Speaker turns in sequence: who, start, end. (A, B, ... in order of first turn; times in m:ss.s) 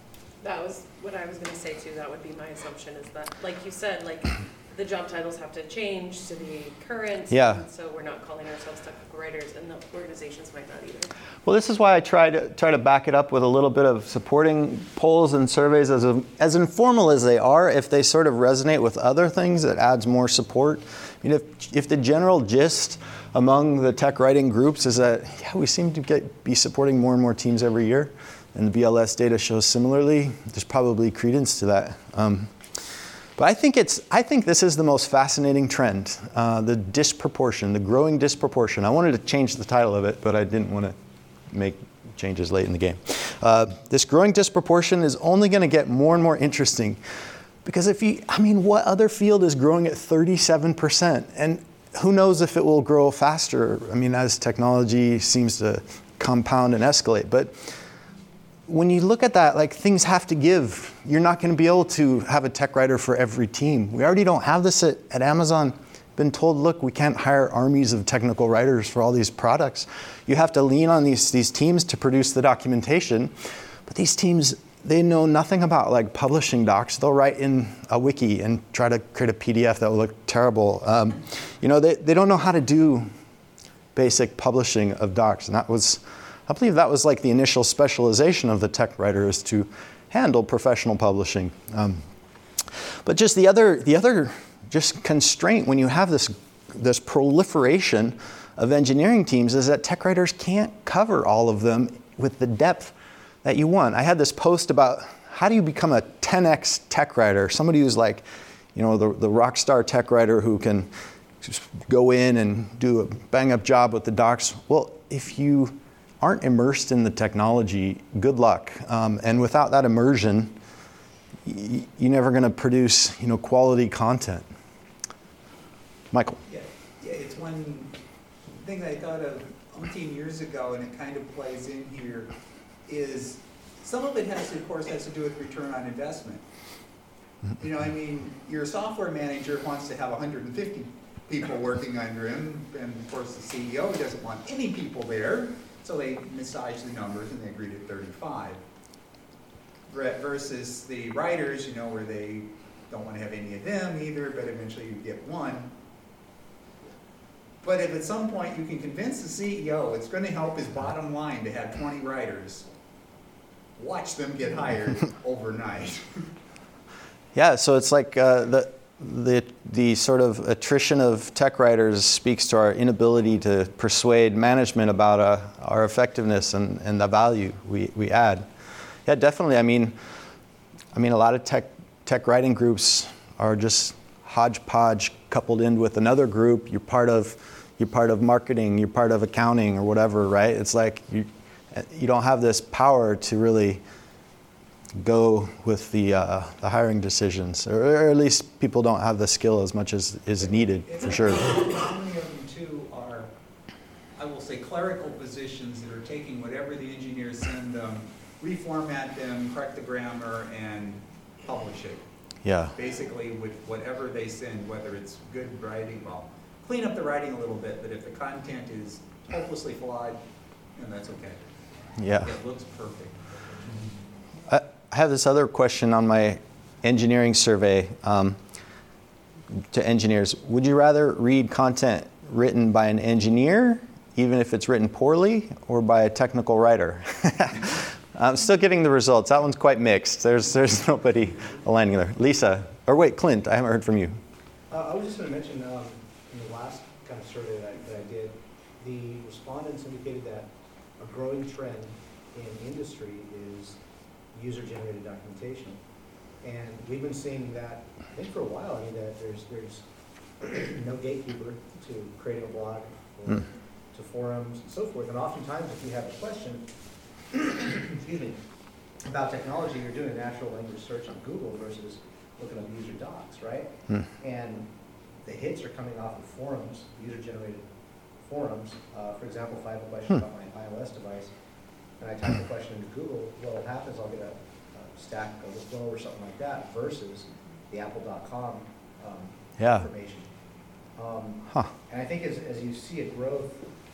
0:00.4-0:11.1 A
0:07.3-0:07.6 B
0:11.4-0:32.5 B
0:33.4-0:40.9 B
0:41.5-0:47.0 B
0:47.6-0:57.5 B
0:58.7-1:13.3 B
1:13.9-1:23.1 B
1:23.9-1:32.0 B
1:33.0-1:48.2 B
1:48.7-1:50.9 B
1:51.4-2:00.5 B
2:01.4-2:04.4 B
2:06.1-2:06.4 B
2:06.4-2:07.9 C
2:08.5-2:12.3 C
2:12.8-2:16.4 C
2:17.6-2:28.6 C
2:29.9-2:35.7 C
2:37.6-2:42.7 C
2:43.8-2:46.1 C
2:47.3-2:58.4 B
2:59.0-2:59.9 B
3:00.9-3:13.8 B
3:15.0-3:21.5 B
3:20.4-3:23.3 C
3:24.2-3:32.0 C
3:32.4-3:32.7 B
3:32.7-3:40.2 C
3:40.8-3:41.4 C
3:42.0-3:42.3 B
3:42.1-3:43.8 C
3:44.5-3:48.4 B
3:49.7-4:04.2 B
4:04.7-4:13.8 D
4:14.3-4:15.8 D
4:16.4-4:19.8 D
4:20.4-4:26.7 D
4:27.3-4:28.4 D
4:29.0-4:34.7 D
4:35.2-4:37.7 D
4:38.2-4:41.3 D
4:42.0-4:50.3 D
4:49.6-4:49.8 B
4:50.9-4:53.6 D